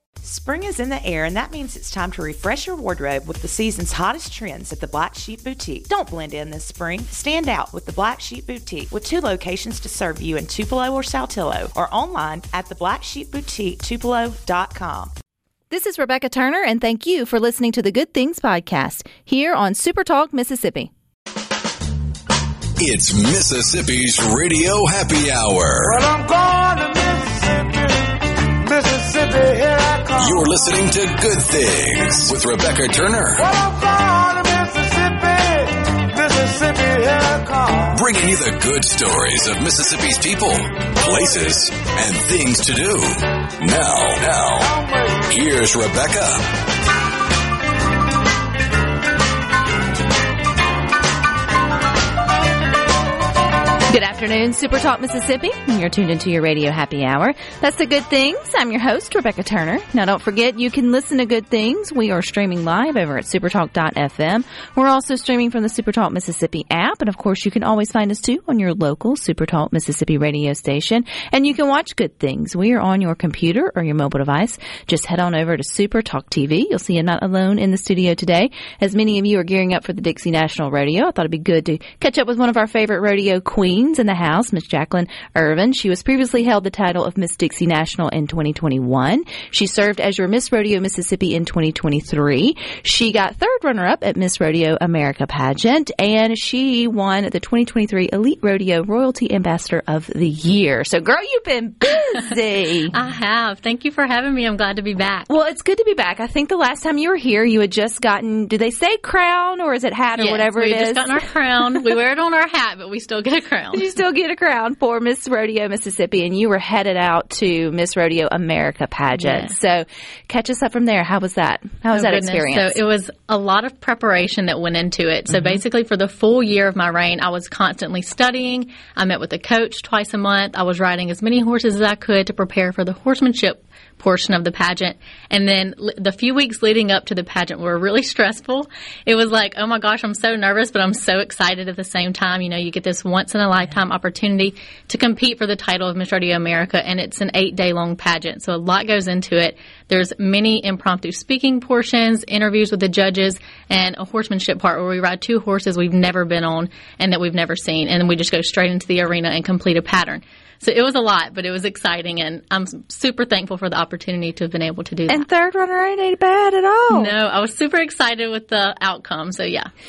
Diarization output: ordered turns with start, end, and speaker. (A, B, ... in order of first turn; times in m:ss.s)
0:00.2-0:15.1 A
0:15.7-0:20.9 B
0:22.8-0:26.0 C
0:25.8-0:28.1 D
0:28.6-0:30.6 D
0:30.2-0:33.4 C
0:33.4-0:38.0 D
0:37.9-0:44.8 C
0:44.6-0:45.2 D
0:45.3-0:46.4 C
0:53.9-1:42.9 B
1:42.9-1:45.3 E
1:45.3-1:51.2 B
1:50.2-1:53.8 E
1:53.7-2:02.8 B
1:59.2-1:59.5 E
2:01.9-2:45.2 E
2:45.1-2:47.1 B
2:46.9-2:49.7 E